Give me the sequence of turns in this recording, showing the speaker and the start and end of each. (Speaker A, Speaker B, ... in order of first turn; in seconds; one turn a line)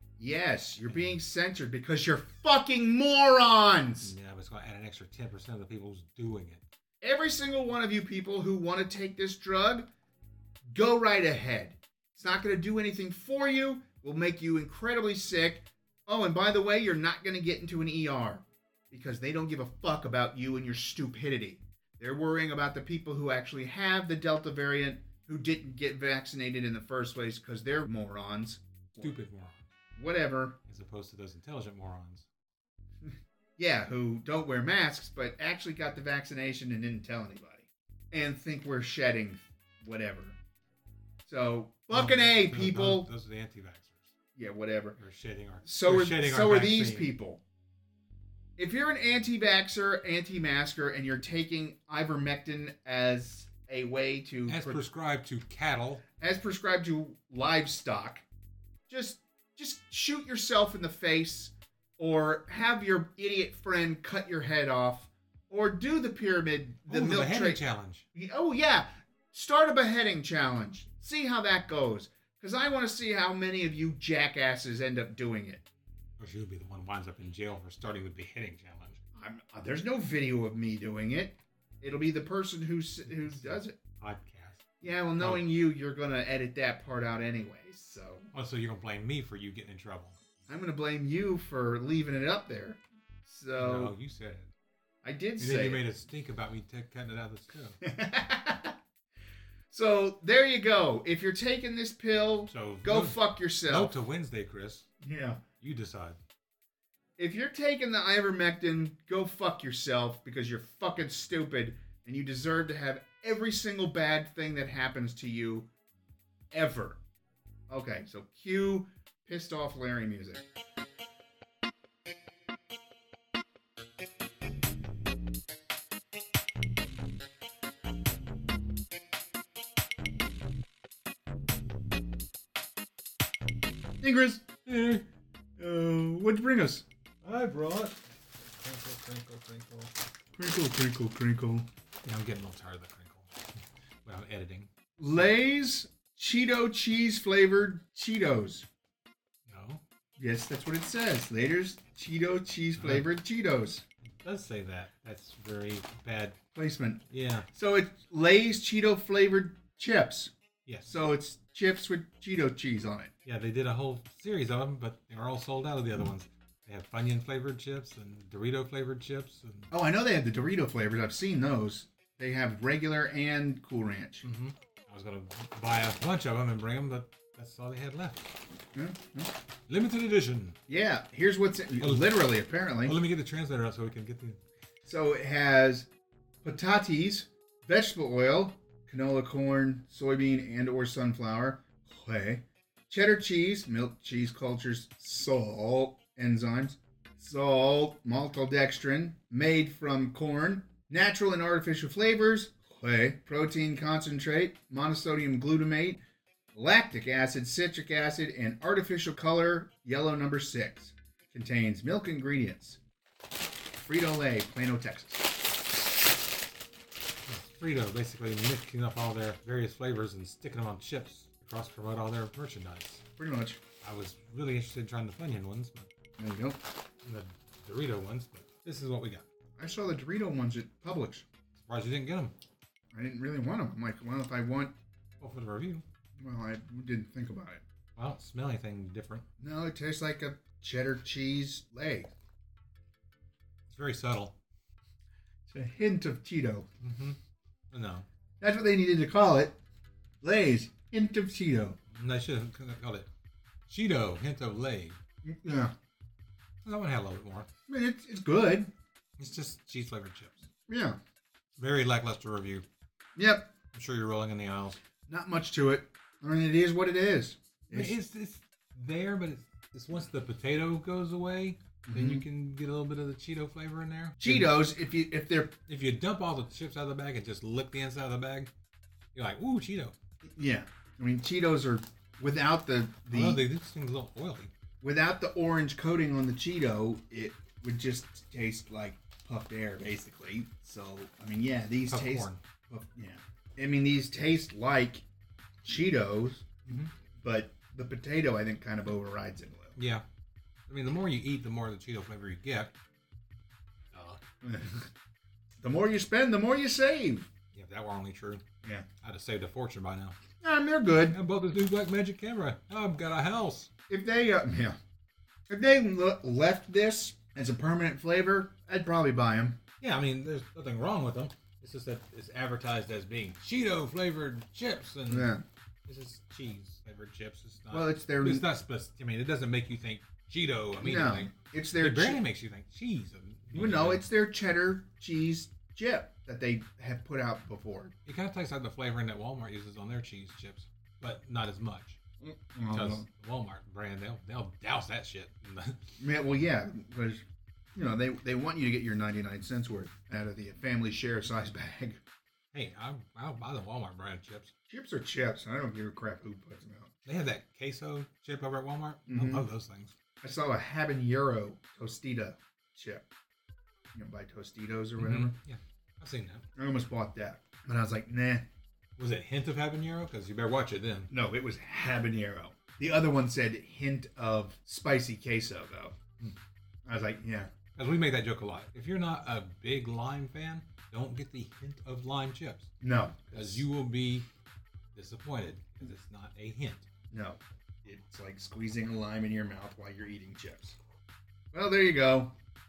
Speaker A: 0.2-4.1
Speaker B: 0.9-1.2
Speaker B: 4.0-6.6
Speaker A: 7.0-9.9
Speaker A: 10.7-29.1
Speaker B: 29.0-29.7
Speaker A: 30.0-30.6
Speaker B: 30.7-32.3
Speaker A: 33.0-40.4
Speaker A: 41.2-43.1
Speaker B: 41.9-44.1
Speaker A: 44.4-45.0
Speaker B: 45.0-47.1
Speaker A: 45.6-47.4
Speaker A: 48.6-54.8
Speaker B: 54.5-56.0
Speaker A: 56.2-58.2
Speaker A: 58.9-67.6
Speaker B: 66.9-68.0
Speaker A: 68.1-75.7
Speaker B: 76.2-79.0
Speaker A: 79.2-83.8
Speaker B: 83.1-84.7
Speaker A: 84.8-88.3
Speaker B: 85.2-85.5
Speaker B: 88.3-90.2
Speaker A: 90.5-93.9
Speaker B: 93.6-94.5
Speaker A: 95.0-95.8
Speaker B: 95.4-97.8
Speaker A: 97.8-98.8
Speaker A: 99.7-103.9
Speaker B: 102.5-104.9
Speaker A: 105.0-105.4
Speaker B: 105.6-106.2
Speaker A: 107.2-115.7
Speaker A: 116.5-117.0
Speaker A: 117.7-120.4
Speaker A: 134.0-134.7
Speaker B: 134.7-135.0
Speaker A: 135.6-136.8
Speaker B: 137.2-139.9
Speaker A: 140.4-141.7
Speaker B: 142.0-143.4
Speaker B: 144.1-144.7
Speaker A: 145.0-148.7
Speaker B: 149.5-149.8
Speaker A: 150.2-153.8
Speaker B: 152.8-153.1
Speaker B: 154.2-156.4
Speaker A: 156.6-160.3
Speaker B: 157.1-157.5
Speaker B: 160.7-160.9
Speaker A: 160.9-163.1
Speaker B: 163.2-169.7
Speaker A: 169.7-174.3
Speaker B: 174.2-178.3
Speaker A: 178.7-179.3
Speaker B: 179.7-180.6
Speaker A: 180.7-183.0
Speaker B: 181.8-182.2
Speaker B: 182.8-184.4
Speaker A: 184.8-185.9
Speaker A: 186.4-206.0
Speaker A: 206.5-212.8
Speaker A: 213.8-215.3
Speaker B: 217.2-223.0
Speaker A: 223.2-223.6
Speaker B: 223.8-225.9
Speaker A: 226.2-226.6
Speaker B: 227.0-229.2
Speaker A: 229.6-231.2
Speaker B: 231.6-232.3
Speaker A: 232.9-234.8
Speaker B: 235.2-235.8
Speaker A: 236.2-237.6
Speaker B: 238.0-239.3
Speaker A: 239.4-242.1
Speaker B: 243.7-244.4
Speaker A: 245.5-246.7
Speaker B: 246.8-247.2
Speaker B: 247.7-248.1
Speaker A: 248.4-249.6
Speaker A: 250.2-251.8
Speaker B: 251.9-253.1
Speaker B: 253.7-255.0
Speaker A: 255.2-255.7
Speaker B: 256.6-257.5
Speaker A: 257.7-258.7
Speaker B: 259.2-260.5
Speaker A: 260.7-261.0
Speaker B: 261.6-262.6
Speaker A: 263.2-263.5
Speaker B: 263.7-264.8
Speaker A: 265.1-267.9
Speaker B: 267.7-274.6
Speaker A: 271.9-272.2
Speaker A: 274.2-275.6
Speaker B: 275.7-278.5
Speaker B: 279.1-279.9
Speaker A: 280.2-283.4
Speaker B: 283.1-284.5
Speaker A: 284.8-295.0
Speaker B: 291.9-292.4
Speaker A: 295.6-296.5
Speaker B: 296.7-296.9
Speaker A: 297.2-299.8
Speaker B: 299.8-300.1
Speaker B: 300.7-302.8
Speaker B: 303.9-304.2
Speaker A: 304.4-304.9
Speaker A: 305.6-307.3
Speaker B: 307.5-308.4
Speaker B: 309.0-310.2
Speaker A: 310.4-311.2
Speaker B: 311.1-313.7
Speaker A: 313.9-314.8
Speaker A: 315.5-319.6
Speaker B: 319.8-325.3
Speaker A: 325.1-325.4
Speaker B: 325.9-334.1
Speaker A: 327.7-328.5
Speaker A: 330.8-332.2
Speaker A: 333.5-337.9
Speaker B: 338.1-342.0
Speaker A: 342.2-343.1
Speaker B: 342.7-345.9
Speaker A: 346.0-347.2
Speaker A: 347.8-352.0
Speaker B: 352.5-354.5
Speaker A: 354.7-356.9
Speaker B: 357.1-359.9
Speaker A: 359.1-359.5
Speaker A: 360.2-363.1
Speaker A: 363.9-365.4
Speaker B: 365.0-366.4
Speaker A: 366.6-368.5
Speaker B: 369.0-371.1
Speaker A: 371.1-376.0
Speaker A: 376.9-377.5
Speaker B: 377.8-382.7
Speaker A: 382.8-383.7
Speaker B: 383.3-384.3
Speaker B: 384.9-386.9
Speaker A: 387.1-390.8
Speaker A: 391.5-392.4